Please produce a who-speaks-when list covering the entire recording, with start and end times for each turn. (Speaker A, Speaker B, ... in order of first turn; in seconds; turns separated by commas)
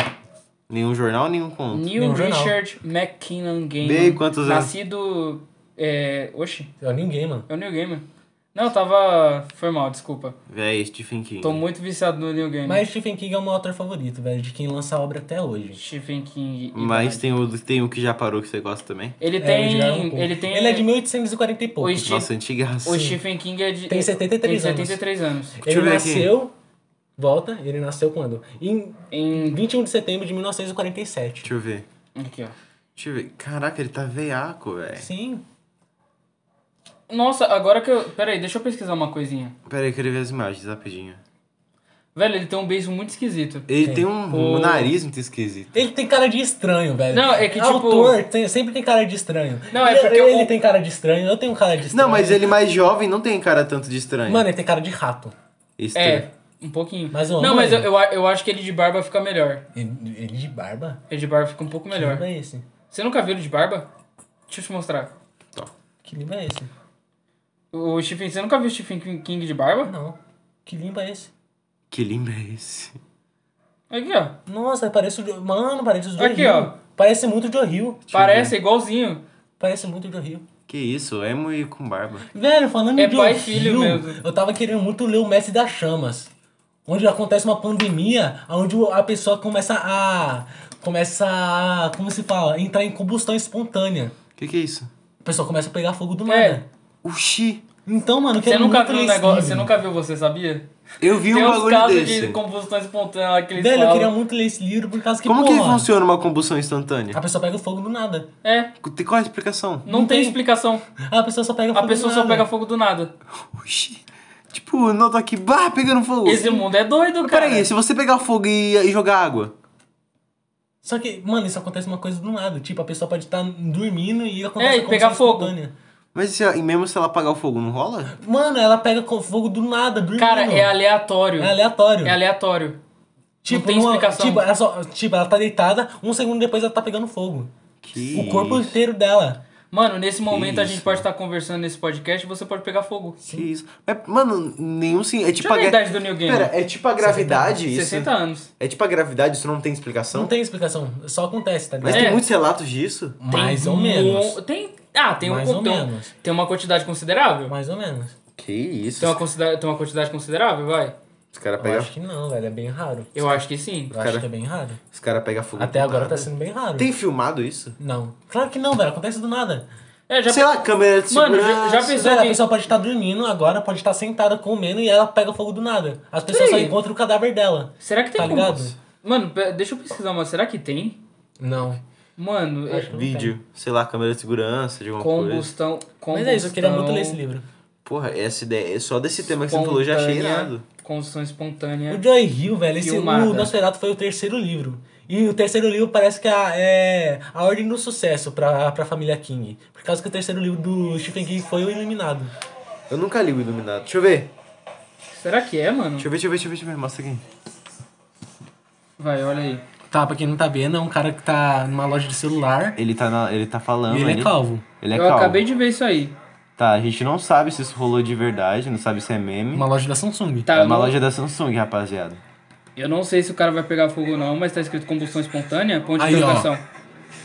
Speaker A: 0.7-1.9, Speaker B: 1.7-6.7, Speaker C: 1.9-2.6, Speaker A: 3.8-4.7, Speaker C: 6.8-7.5, Speaker B: 7.5-10.4, Speaker A: 10.5-11.6, Speaker B: 11.4-12.8, Speaker C: 12.7-15.8, Speaker B: 15.8-17.2, Speaker A: 16.7-19.2, Speaker B: 19.2-20.9, Speaker C: 19.4-22.1, Speaker B: 21.8-22.3, Speaker A: 22.0-23.2, Speaker B: 22.9-25.6, Speaker C: 23.9-25.0, Speaker C: 25.6-26.5, Speaker A: 25.6-26.3, Speaker C: 27.2-31.5, Speaker B: 29.1-29.6, Speaker A: 31.4-31.9, Speaker B: 32.2-32.5, Speaker A: 33.0-35.1, Speaker C: 35.0-35.4, Speaker B: 37.1-39.5, Speaker A: 39.7-41.2, Speaker B: 42.1-44.9, Speaker A: 43.7-45.8, Speaker C: 45.8-52.5, Speaker B: 47.1-48.2, Speaker B: 49.7-50.5, Speaker A: 51.9-54.5, Speaker C: 54.3-55.4, Speaker A: 55.8-56.3, Speaker B: 56.0-59.6, Speaker C: 57.1-57.9, Speaker C: 59.8-61.0, Speaker B: 61.1-62.2, Speaker C: 61.9-62.6, Speaker B: 62.9-63.9, Speaker B: 64.5-65.1, Speaker C: 66.0-66.7, Speaker B: 67.7-69.9, Speaker C: 69.9-71.3, Speaker A: 71.9-73.0, Speaker B: 73.9-74.4, Speaker C: 74.5-78.1, Speaker B: 76.2-76.7, Speaker A: 78.1-78.5, Speaker B: 78.1-79.2, Speaker C: 79.6-80.5, Speaker A: 80.7-82.3, Speaker C: 82.3-86.3, Speaker B: 83.0-84.2, Speaker C: 86.9-94.2, Speaker A: 94.4-94.9, Speaker C: 95.2-96.7, Speaker B: 96.3-96.6, Speaker A: 97.0-97.6, Speaker C: 97.9-99.7, Speaker B: 98.5-104.1, Speaker A: 101.0-102.4, Speaker C: 103.6-105.9, Speaker A: 105.2-107.2, Speaker C: 107.1-108.3, Speaker B: 108.4-108.7, Speaker A: 108.8-109.9, Speaker B: 109.9-110.8, Speaker C: 109.9-110.4, Speaker C: 111.0-112.5, Speaker B: 111.7-113.1, Speaker A: 113.4-116.6, Speaker B: 116.2-117.7, Speaker A: 117.2-119.5, Speaker C: 120.8-125.7, Speaker B: 124.6-125.5, Speaker A: 126.1-128.2, Speaker C: 128.1-130.7, Speaker B: 130.2-132.8, Speaker C: 131.4-132.2, Speaker C: 133.4-139.4, Speaker B: 133.5-134.5, Speaker A: 137.8-138.8, Speaker B: 139.7-143.2, Speaker A: 140.3-141.1, Speaker C: 143.2-143.5, Speaker A: 143.3-150.3, Speaker B: 145.4-146.5, Speaker C: 147.0-147.6, Speaker B: 147.6-148.5, Speaker C: 150.1-152.2, Speaker A: 151.8-153.2, Speaker B: 151.9-152.2, Speaker C: 153.2-154.4, Speaker B: 153.3-157.5, Speaker C: 155.2-156.1, Speaker C: 157.5-158.2, Speaker A: 158.3-159.2, Speaker B: 159.0-161.0, Speaker A: 161.3-161.9, Speaker C: 161.6-163.4, Speaker B: 163.2-163.9, Speaker C: 163.9-164.8, Speaker A: 163.9-164.3, Speaker A: 164.9-167.8, Speaker C: 165.6-166.9, Speaker C: 167.8-169.7, Speaker B: 170.1-170.5, Speaker A: 170.3-171.9, Speaker B: 171.1-172.4, Speaker C: 171.9-178.7, Speaker B: 176.3-176.8, Speaker B: 177.8-181.0, Speaker A: 178.2-178.8, Speaker C: 181.4-181.8, Speaker B: 182.2-182.9, Speaker C: 182.7-183.3, Speaker A: 182.9-185.5, Speaker B: 185.0-187.2, Speaker C: 186.1-187.4, Speaker A: 187.8-190.6, Speaker B: 189.4-192.0, Speaker C: 191.9-202.3, Speaker B: 192.8-193.5, Speaker A: 202.9-204.3, Speaker B: 205.1-206.1, Speaker A: 206.0-207.2, Speaker B: 209.0-209.6, Speaker C: 209.9-212.8, Speaker A: 212.8-215.4, Speaker C: 213.9-214.7, Speaker B: 214.9-216.1, Speaker A: 216.6-219.7, Speaker C: 219.5-220.5, Speaker B: 220.5-221.0, Speaker A: 220.5-222.2, Speaker B: 222.8-226.6, Speaker C: 226.0-226.5